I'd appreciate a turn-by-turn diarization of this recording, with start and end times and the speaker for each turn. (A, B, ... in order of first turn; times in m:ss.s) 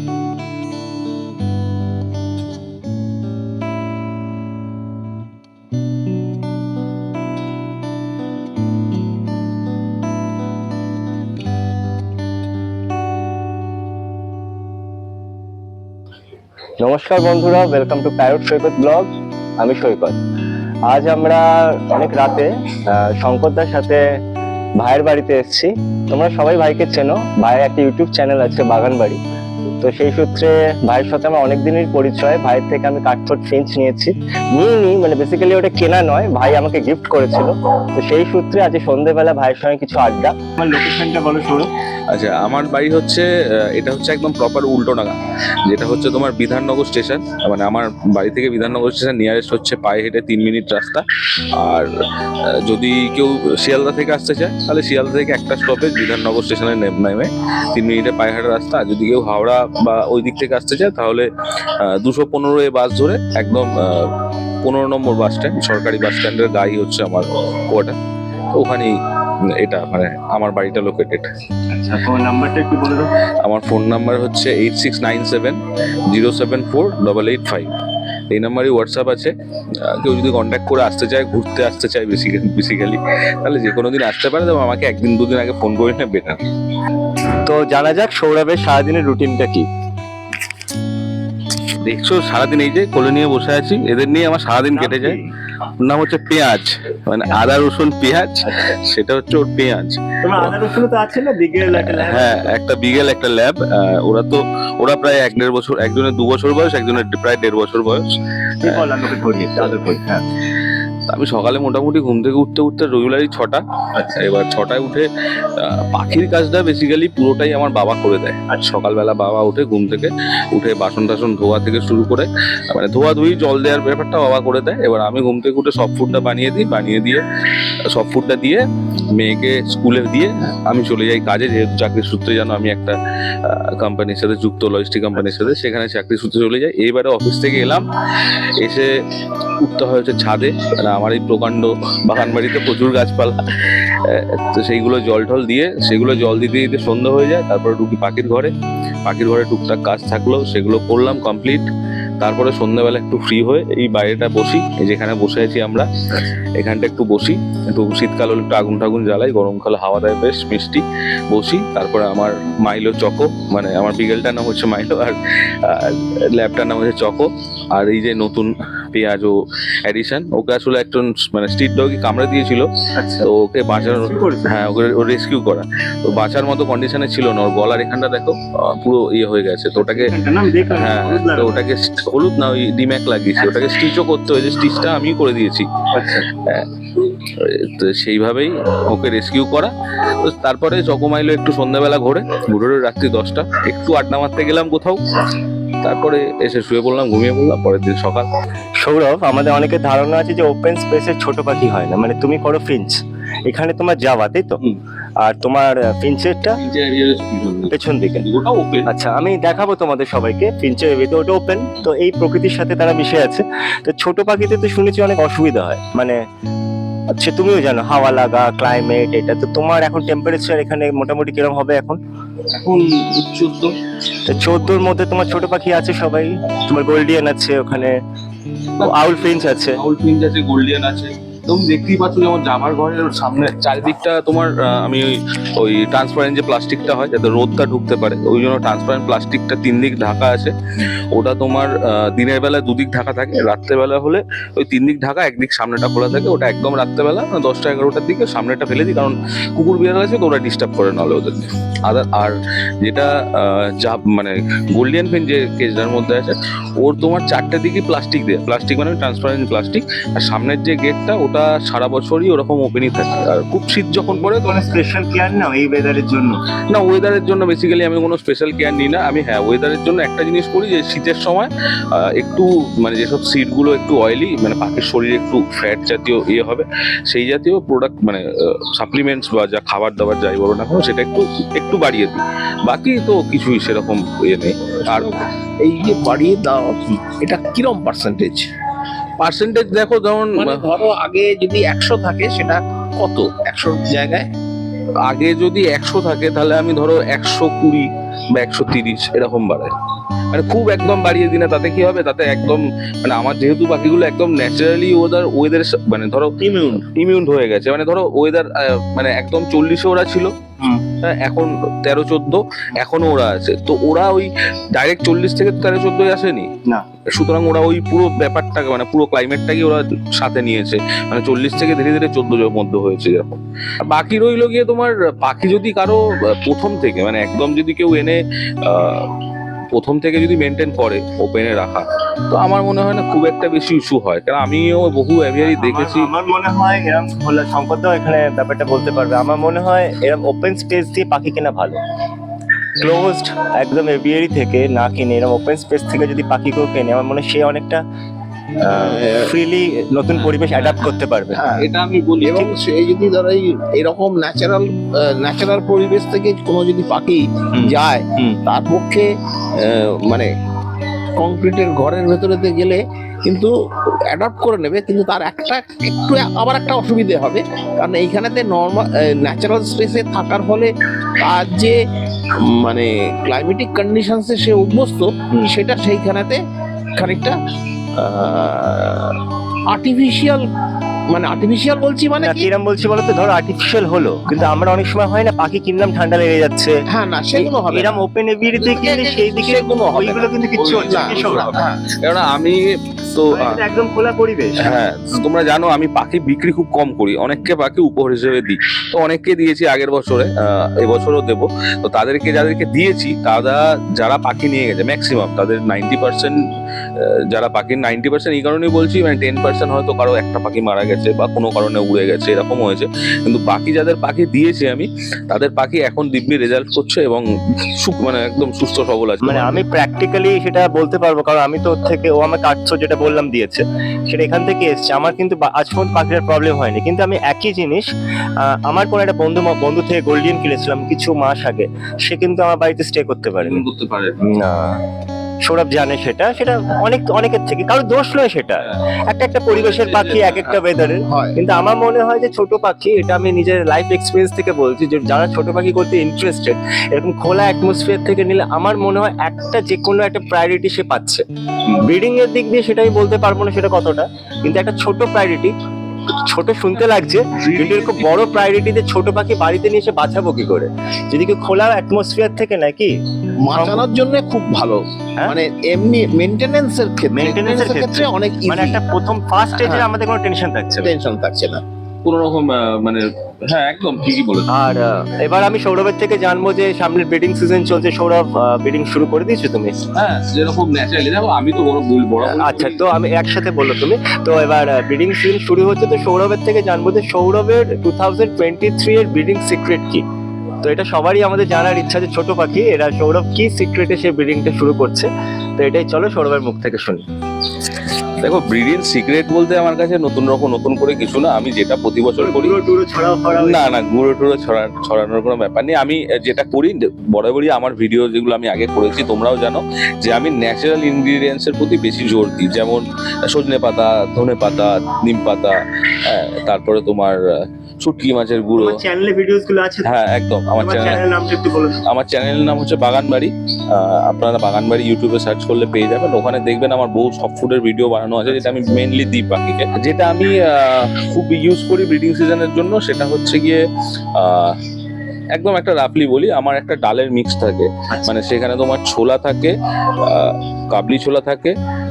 0:16.8-0:20.2 A
0:20.9-0:24.0 A
0:24.8-0:29.2 A
0:29.8-0:41.7 A
0:42.1-0:45.2 B
0:45.7-0:51.0 B
0:51.6-0:51.9 B
0:52.6-1:01.3 B
1:01.8-1:08.0 B
1:08.5-1:08.9 B
1:09.6-1:11.3 B
1:11.7-1:13.1 A
1:13.4-1:17.7 B
1:18.3-1:19.3 B
1:19.8-1:26.4 B
1:27.4-1:29.7 A
1:31.8-1:35.2 B
1:34.7-1:35.3 A
1:35.8-1:40.5 B
1:38.4-1:38.8 A
1:40.2-1:42.5 A
1:41.7-1:48.0 B
1:48.6-1:50.2 A
1:51.1-2:07.2 B
1:53.9-1:54.2 A
2:07.9-2:18.9 B
2:19.6-2:28.5 B
2:29.0-2:31.7 B
2:32.2-2:35.9 B
2:36.1-2:36.4 A
2:36.6-2:52.7 B
2:52.9-2:53.3 A
2:53.2-3:00.1 B
2:53.8-2:54.5 A
2:59.8-3:01.6 A
3:00.7-3:05.7 B
3:03.4-3:03.8 A
3:05.9-3:06.3 A
3:06.3-3:09.7 B
3:10.2-3:15.0 B
3:15.8-3:18.3 B
3:18.8-3:24.6 A
3:25.2-3:26.6 A
3:26.6-3:28.9 B
3:27.7-3:28.2 A
3:28.8-3:36.2 A
3:37.1-3:42.0 A
3:42.5-3:43.8 B
3:44.2-3:48.0 A
3:44.3-3:44.7 B
3:48.8-4:00.5 B
3:48.8-3:49.8 A
4:01.1-4:24.5 B
4:24.1-4:26.4 A
4:26.7-4:45.1 B
4:44.8-4:48.5 C
4:49.2-4:50.7 B
4:50.4-4:54.3 C
4:55.0-4:59.7 B
5:00.3-5:10.3 B
5:06.4-5:06.8 A
5:11.0-5:16.5 B
5:17.1-5:29.1 B
5:29.7-5:36.1 B
5:35.4-5:41.8 A
5:42.8-5:47.8 A
5:48.6-5:49.3 C
5:48.6-5:51.4 A
5:50.1-5:50.9 B
5:51.3-5:51.6 C
5:51.5-5:52.5 B
5:52.2-5:59.1 C
5:57.5-5:58.4 B
5:59.6-6:00.3 C
6:01.2-6:03.5 C
6:04.1-6:11.8 C
6:12.6-6:16.4 C
6:17.0-6:17.4 C
6:18.0-6:19.2 C
6:19.7-6:20.4 C
6:21.1-6:22.5 C
6:22.2-6:26.8 A
6:26.9-6:28.0 C
6:27.3-6:31.5 A
6:28.6-6:30.3 C
6:30.6-6:32.6 B
6:30.9-6:31.9 C
6:33.1-6:33.6 B
6:33.3-6:34.8 A
6:34.6-6:46.4 B
6:47.0-6:57.2 B
6:57.8-6:59.6 B
6:59.2-7:07.9 A
7:08.4-7:13.6 A
7:13.4-7:14.2 B
7:14.2-7:14.8 A
7:15.4-7:31.2 A
7:19.5-7:20.6 B
7:21.1-7:21.4 C
7:31.8-7:35.5 A
7:36.2-7:42.9 A
7:37.4-7:38.4 B
7:43.4-7:48.8 C
7:43.5-7:43.8 A
7:47.1-7:50.9 A
7:50.8-7:51.6 C
7:52.0-7:54.5 B
7:54.5-7:59.7 A
7:59.9-8:02.9 B
8:02.2-8:10.0 A
8:10.6-8:17.0 A
8:18.2-8:22.6 B
8:22.2-8:23.6 A
8:23.3-8:37.2 B
8:37.8-8:38.8 B
8:38.6-8:39.9 A
8:39.8-8:41.0 B
8:40.6-8:41.8 A
8:41.8-8:53.6 B
8:54.2-8:54.6 B
8:55.3-9:01.5 B
8:57.9-8:58.1 A